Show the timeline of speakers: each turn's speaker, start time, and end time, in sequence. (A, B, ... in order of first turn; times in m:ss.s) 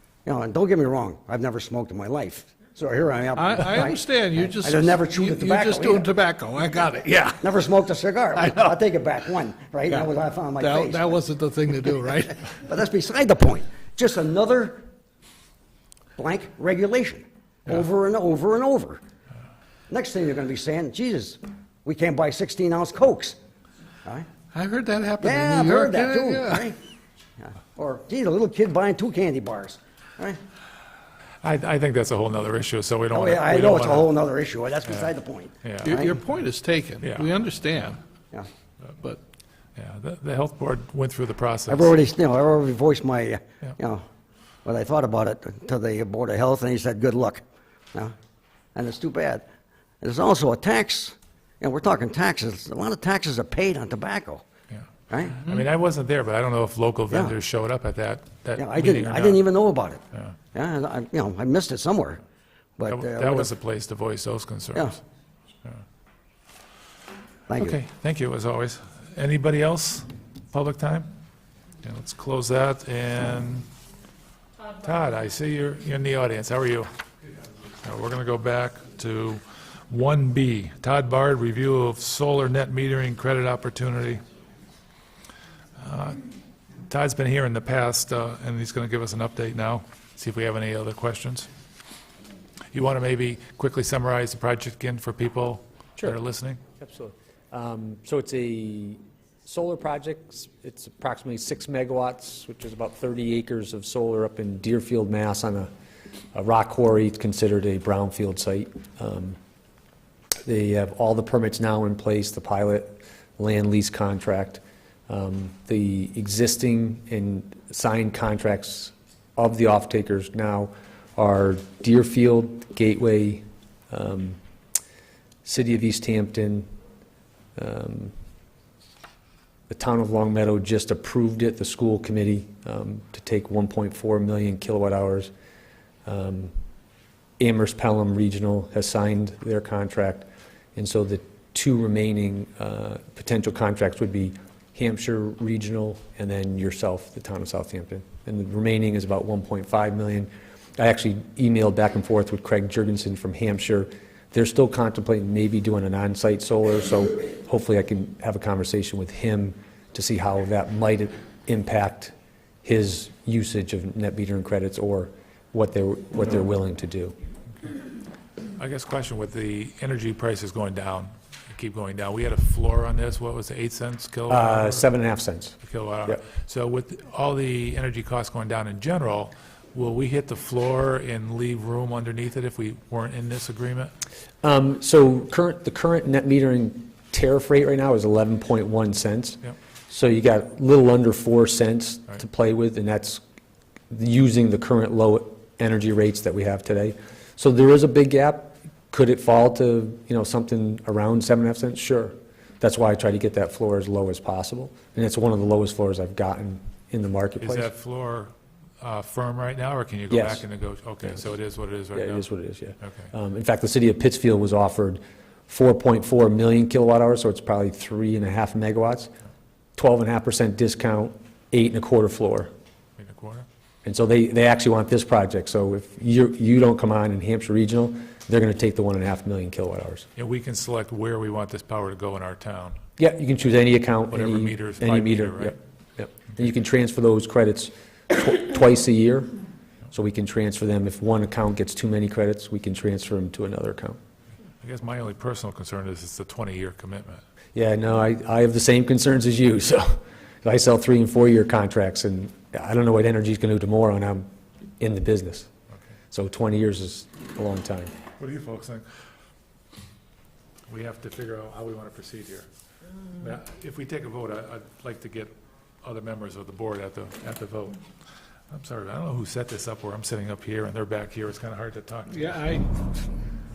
0:00.2-0:06.1 A
0:03.3-0:07.4 B
0:07.4-0:11.2 A
0:10.6-0:12.3 B
0:12.5-0:14.8 A
0:16.2-0:19.0 A
0:19.9-0:23.4 A
0:24.5-0:26.6 B
0:25.2-0:26.8 A
0:27.4-0:30.4 A
0:31.4-0:34.1 C
0:33.1-0:36.2 A
0:35.6-0:36.0 C
0:35.8-0:37.9 B
0:37.0-0:37.4 C
0:39.8-0:41.9 C
0:41.7-0:44.0 A
0:44.6-0:48.1 A
0:48.7-0:49.4 A
0:50.0-0:54.4 A
0:55.1-0:55.4 A
0:55.3-0:59.4 C
0:57.1-0:57.4 A
0:58.6-1:00.0 A
1:00.5-1:02.2 A
1:02.8-1:03.5 A
1:02.9-1:05.0 C
1:07.5-1:07.8 A
1:07.6-1:11.1 C
1:11.8-1:13.7 C
1:14.8-1:16.9 C
1:17.8-1:24.2 C
1:25.8-1:26.2 C
1:26.9-1:31.5 C
1:32.7-1:36.6 C
1:36.8-1:45.7 D
1:46.3-1:49.4 D
1:50.4-2:04.4 D
2:05.4-2:06.6 D
2:07.6-2:08.1 D
2:09.7-2:15.3 D
2:16.0-2:16.5 D
2:17.4-2:47.1 D
2:48.6-2:54.9 C
2:54.3-2:56.2 D
2:55.6-3:03.9 C
3:04.4-3:13.2 D
3:13.9-3:27.7 D
3:27.4-3:32.2 C
3:30.1-3:30.4 D
3:31.9-3:39.1 D
3:32.8-3:33.1 C
3:39.8-3:42.5 D
3:43.0-3:43.4 C
3:43.8-3:50.0 D
3:50.2-3:52.8 C
3:53.0-3:59.3 D
3:54.1-3:55.6 C
3:59.9-4:04.0 D
4:04.6-4:07.2 C
4:07.5-4:14.2 D
4:14.8-4:15.5 D
4:16.1-4:17.9 D
4:18.2-4:18.8 C
4:20.7-4:22.5 C
4:23.2-4:27.8 C
4:28.5-4:32.6 C
4:32.2-4:32.6 B